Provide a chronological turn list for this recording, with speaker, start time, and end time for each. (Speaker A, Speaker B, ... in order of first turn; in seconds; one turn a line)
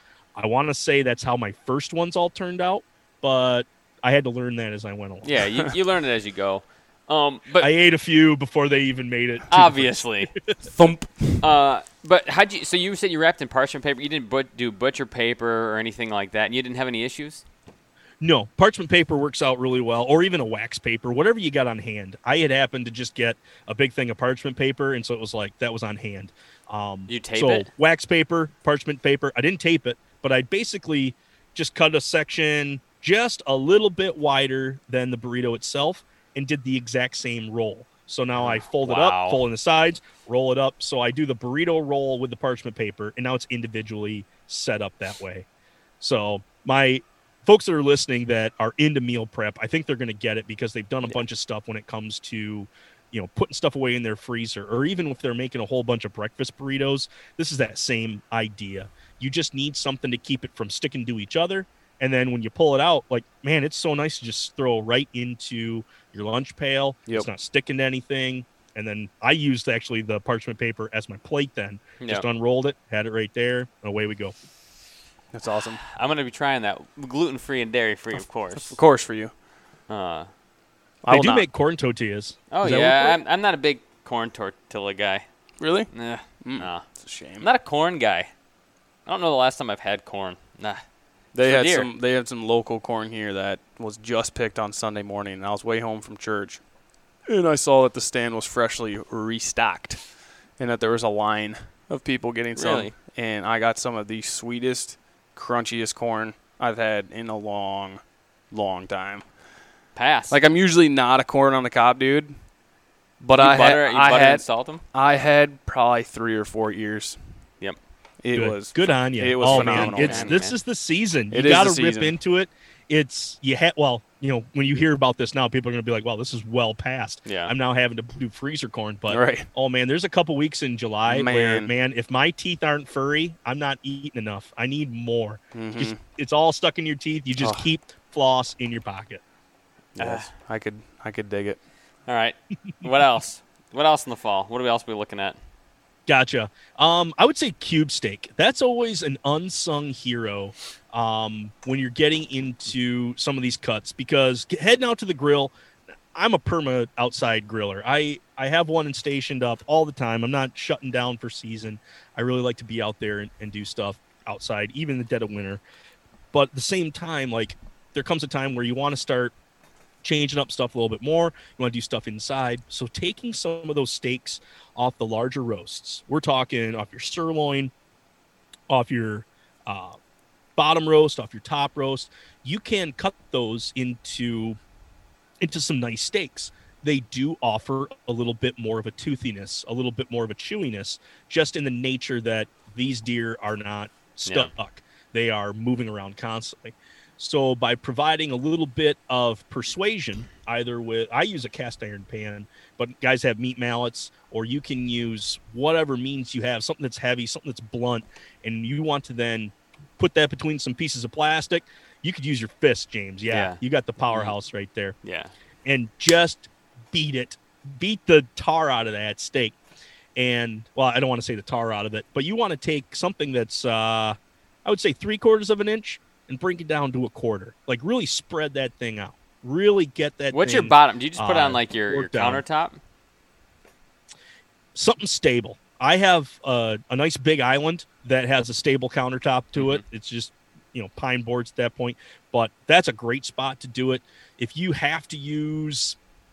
Speaker A: 0.4-5.4
Speaker B: 5.2-7.7
Speaker A: 7.6-10.6
Speaker B: 9.5-10.3
Speaker C: 10.7-11.5
Speaker B: 11.4-17.4
Speaker A: 18.2-45.5
Speaker B: 27.1-27.7
Speaker B: 38.4-39.4
Speaker A: 46.0-74.3
Speaker B: 72.0-72.3
Speaker C: 75.3-75.8
Speaker B: 75.8-78.8
Speaker C: 78.6-79.3
Speaker B: 79.9-80.3
Speaker C: 81.0-81.5
Speaker A: 81.1-83.2
Speaker B: 82.5-85.2
Speaker C: 85.6-85.9
Speaker B: 85.9-86.8
Speaker C: 86.4-87.5
Speaker B: 87.4-88.3
Speaker B: 89.1-90.8
Speaker C: 91.3-96.6
Speaker B: 91.4-91.9
Speaker C: 97.3-100.0
Speaker C: 100.6-109.2
Speaker B: 102.6-102.9
Speaker B: 110.0-110.4
Speaker C: 110.3-112.3
Speaker C: 113.2-117.2
Speaker B: 113.4-114.8
Speaker C: 118.2-120.4
Speaker A: 118.3-139.2
Speaker B: 119.4-120.6
Speaker C: 121.3-122.2
Speaker B: 127.2-127.5
Speaker C: 129.1-129.5
Speaker C: 131.1-131.7
Speaker C: 135.5-136.0
Speaker C: 137.4-137.7
Speaker C: 140.0-141.6
Speaker B: 140.0-140.3
Speaker B: 142.1-145.4
Speaker A: 146.1-155.5
Speaker A: 156.1-165.6
Speaker A: 166.3-169.3
Speaker A: 170.0-177.7
Speaker A: 178.7-180.0
Speaker A: 180.6-184.6
Speaker A: 185.4-215.0
Speaker B: 194.3-194.5
Speaker B: 213.3-213.6
Speaker B: 214.1-214.3
Speaker B: 215.0-215.3
Speaker A: 215.7-219.6
Speaker A: 220.2-232.4
Speaker B: 230.3-232.8
Speaker A: 234.8-246.0
Speaker B: 239.6-239.8